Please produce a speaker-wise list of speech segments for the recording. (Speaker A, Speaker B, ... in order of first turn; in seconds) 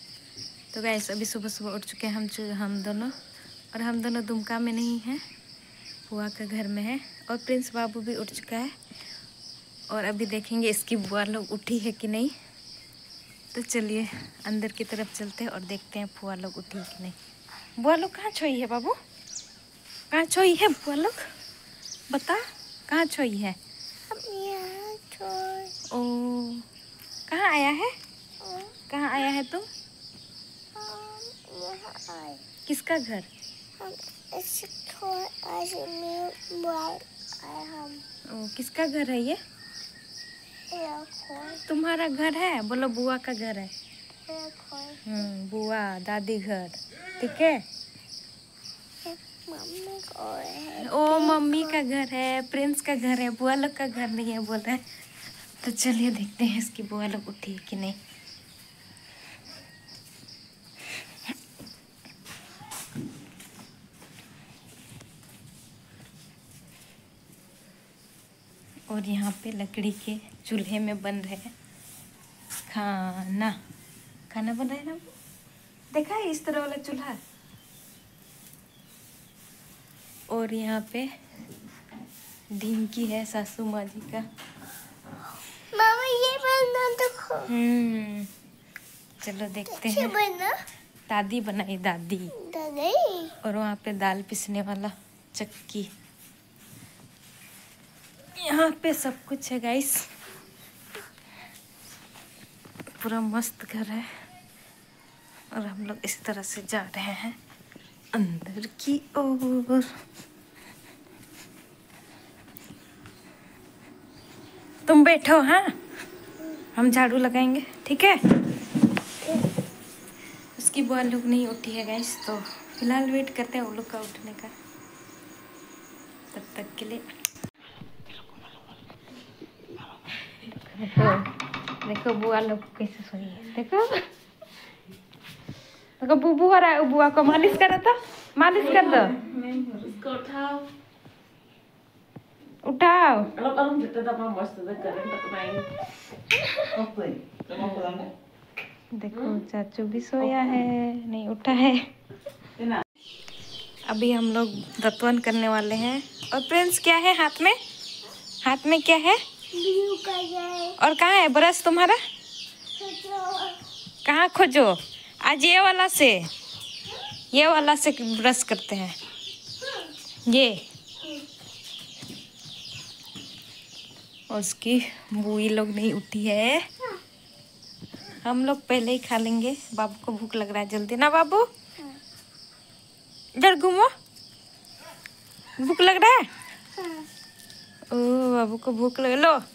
Speaker A: 0.7-3.1, 3.7-5.2, 6.1-8.8, 9.9-12.3, 13.5-17.2, 17.8-19.0, 20.1-21.2, 22.1-23.6, 25.9-26.7, 27.3-27.9, 28.9-29.7, 32.7-33.3, 38.3-39.4, 41.6-43.7, 45.0-47.6, 50.8-54.8, 55.6-58.0, 68.9-71.5, 72.7-73.6, 74.3-75.0, 75.9-77.2, 80.3-81.1, 82.5-84.2, 87.5-88.3, 89.2-90.2, 91.1-92.3, 93.4-95.9, 98.3-100.0, 103.0-104.1, 105.5-107.4, 108.1-109.9, 114.8-115.7, 116.7-118.2, 120.5-124.5, 126.3-127.0, 130.5-131.3, 131.8-134.1, 136.0-139.2, 142.6-143.4, 148.9-151.9, 153.9-157.6, 158.4-159.2, 160.8-162.0, 164.1-166.3, 167.3-169.0, 170.3-170.6, 174.3-176.7, 178.2-181.5, 183.4-183.9, 185.6-186.3, 187.9-189.4
Speaker B: 24.1-25.7, 28.4-28.7, 30.8-32.4, 33.8-38.0, 40.7-41.6, 44.3-45.0, 49.0-51.8, 85.7-87.5, 89.7-90.5, 92.3-93.3, 159.5-160.8, 162.8-163.6, 186.7-187.1
Speaker C: 139.2-140.6, 143.4-145.7, 146.8-148.1